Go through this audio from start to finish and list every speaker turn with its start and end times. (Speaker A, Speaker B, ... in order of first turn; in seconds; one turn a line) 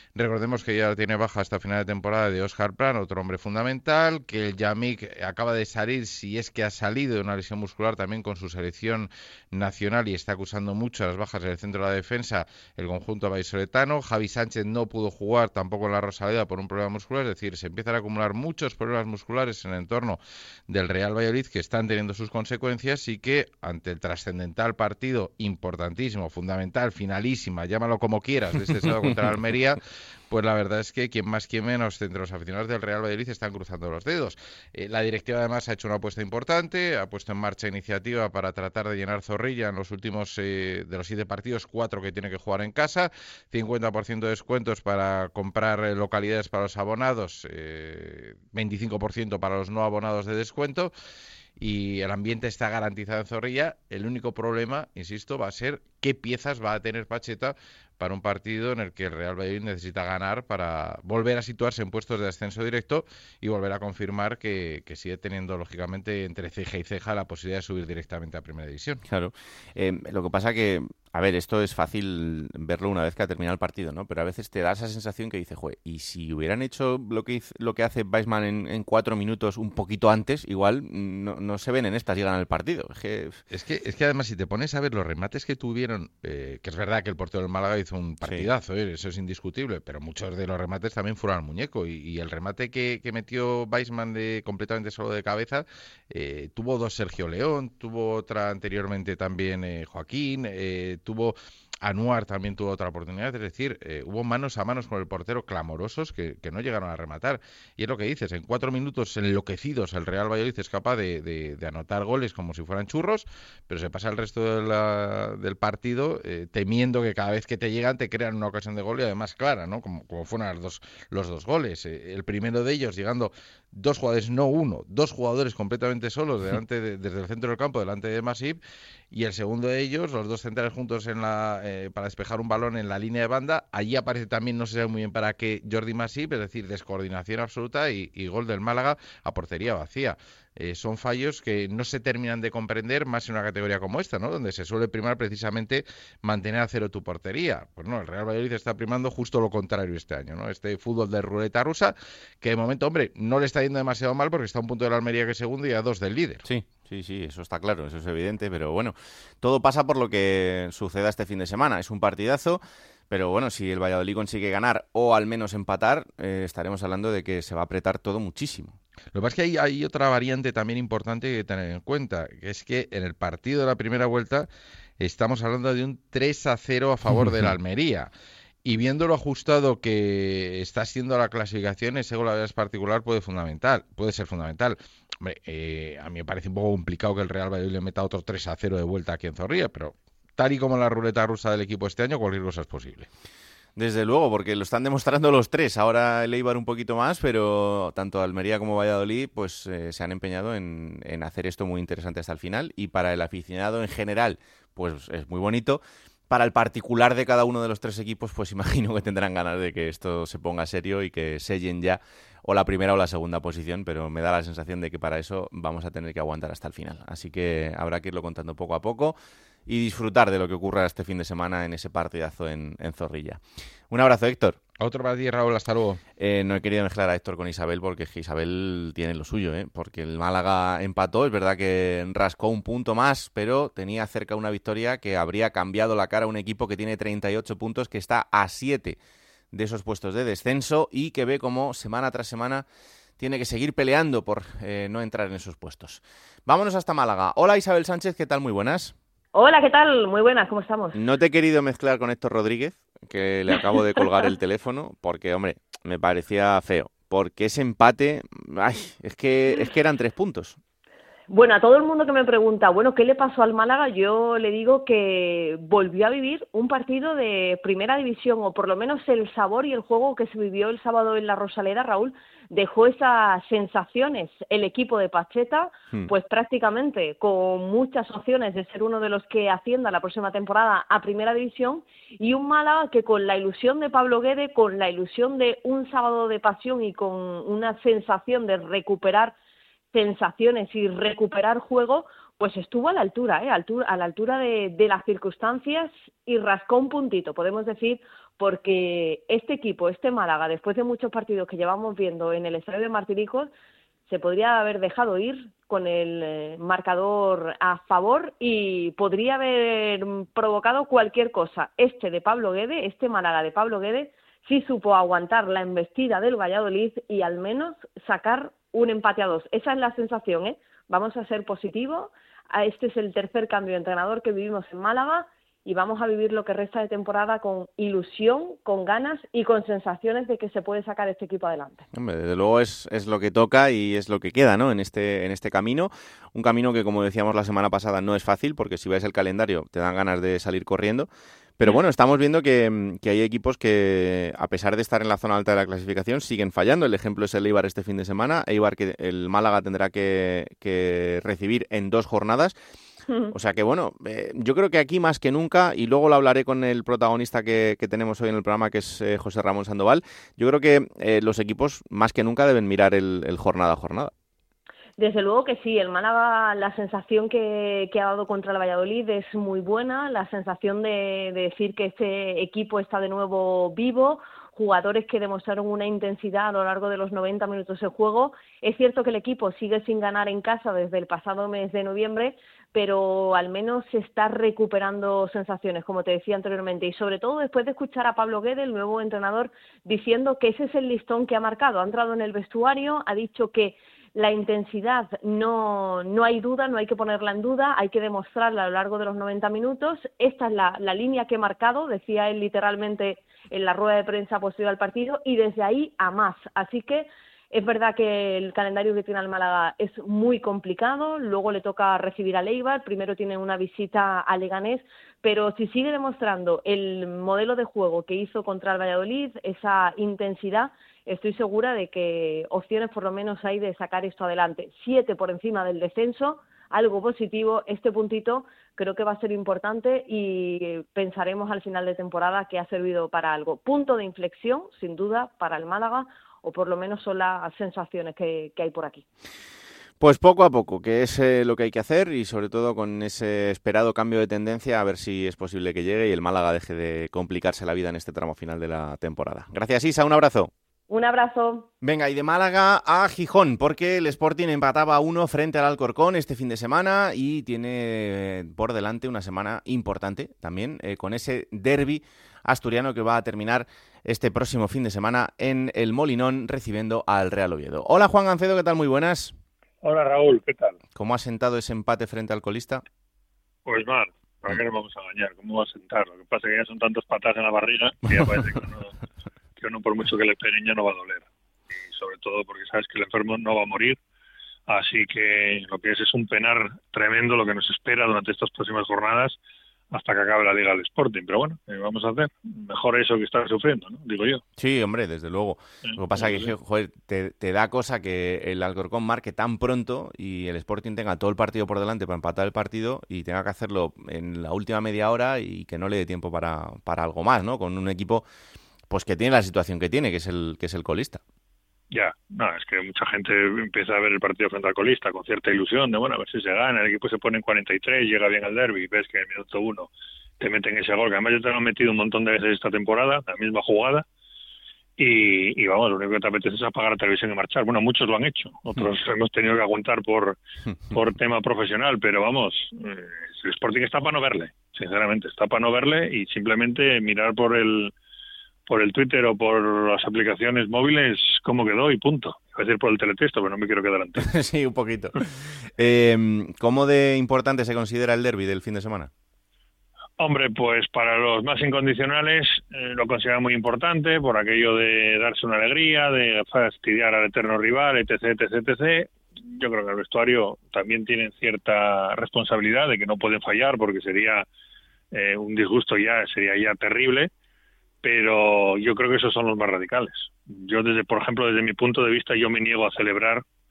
Speaker A: 0.1-50.9
Speaker A: 51.6-69.0
Speaker B: 69.0-83.4
Speaker A: 83.5-128.6
Speaker A: 129.1-156.4
Speaker B: 156.4-168.8
Speaker A: 169.1-174.5
Speaker A: 175.0-178.1
Speaker A: 178.6-193.1
Speaker B: 193.8-224.6
Speaker A: 224.8-226.0
Speaker B: 226.2-239.0
Speaker B: 239.5-242.6
Speaker B: 243.2-248.9
Speaker C: 249.3-251.0
Speaker B: 250.9-260.6
Speaker C: 261.3-289.3
Speaker C: 289.9-303.5
Speaker C: 304.1-331.8
Speaker B: 331.9-352.5
Speaker B: 353.3-364.1
Speaker C: 365.0-439.0
Speaker B: 440.0-450.5
Speaker C: 450.9-451.7
Speaker B: 451.8-469.3
Speaker D: 469.8-470.8
Speaker B: 470.9-472.8
Speaker D: 473.6-478.9
Speaker D: 479.6-484.0
Speaker D: 484.7-489.4
Speaker D: 489.9-494.4
Speaker B: 494.6-508.2
Speaker D: 495.9-496.5
Speaker B: 508.9-511.2
Speaker D: 511.9-524.0
Speaker D: 525.0-530.4
Speaker D: 530.9-537.9
Speaker D: 538.7-544.3
Speaker B: 544.2-549.1
Speaker D: 550.2-564.5
Speaker D: 565.1-567.3
Speaker D: 568.0-573.4